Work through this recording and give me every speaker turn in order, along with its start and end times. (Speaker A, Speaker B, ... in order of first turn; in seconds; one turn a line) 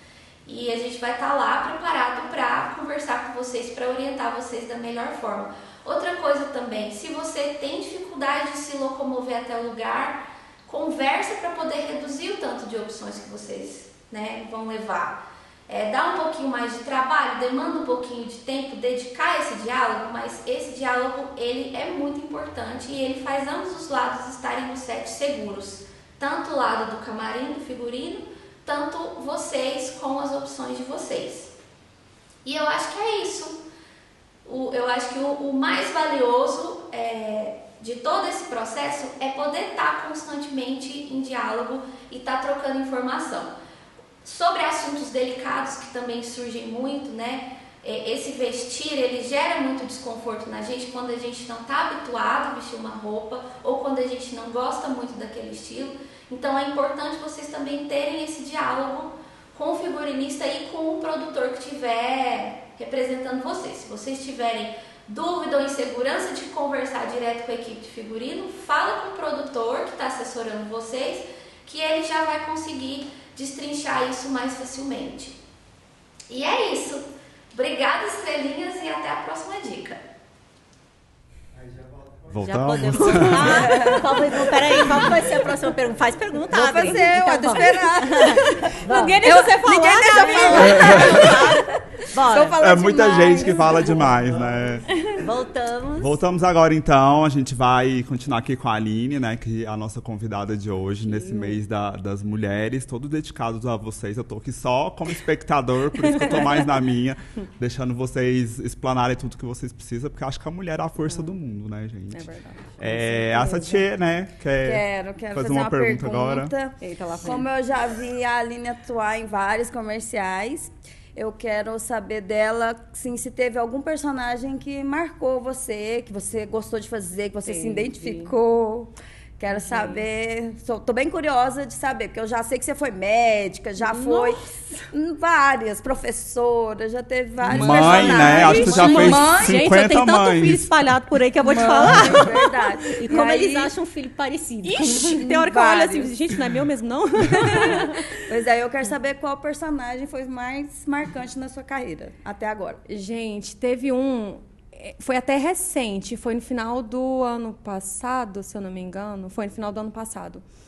Speaker A: 0.5-31.5
Speaker A: 32.4-33.6
Speaker A: 34.4-43.5
Speaker A: 44.2-75.4
Speaker A: 76.3-80.0
Speaker B: 82.3-84.0
Speaker C: 82.4-92.7
Speaker D: 83.1-85.2
Speaker D: 86.5-94.3
Speaker E: 89.0-91.0
Speaker B: 90.6-91.3
Speaker B: 92.6-94.8
Speaker C: 95.2-96.2
Speaker B: 96.0-116.5
Speaker C: 101.1-101.6
Speaker E: 111.1-111.3
Speaker E: 112.1-113.6
Speaker D: 114.6-139.7
Speaker E: 116.8-117.5
Speaker E: 127.4-128.3
Speaker E: 129.5-130.0
Speaker C: 133.8-134.6
Speaker B: 137.5-140.7
Speaker E: 137.5-142.6
Speaker D: 141.4-143.7
Speaker C: 143.0-145.2
Speaker E: 144.6-148.2
Speaker D: 144.9-146.1
Speaker D: 147.4-152.8
Speaker E: 152.9-160.4